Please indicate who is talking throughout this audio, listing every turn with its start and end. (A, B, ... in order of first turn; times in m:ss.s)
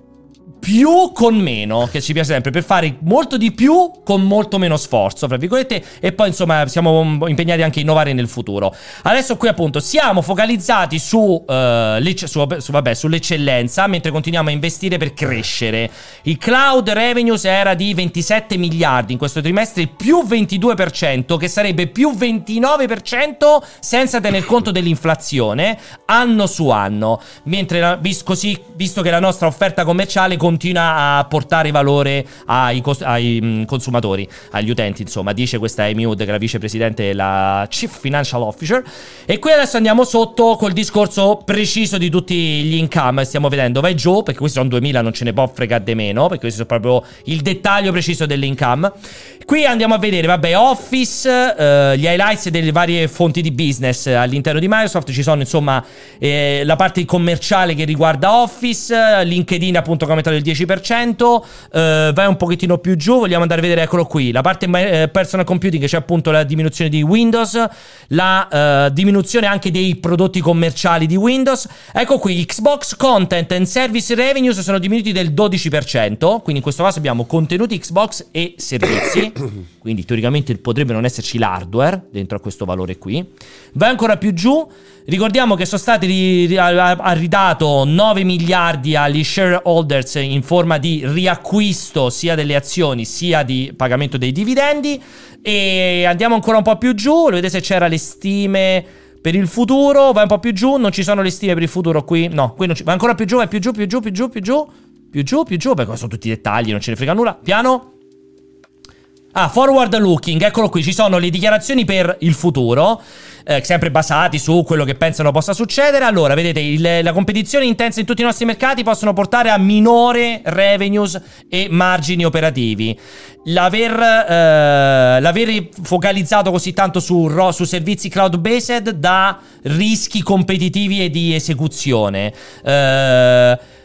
0:00.6-0:48.9 A
0:49.4-1:47.9 A
1:49.3-2:13.6 A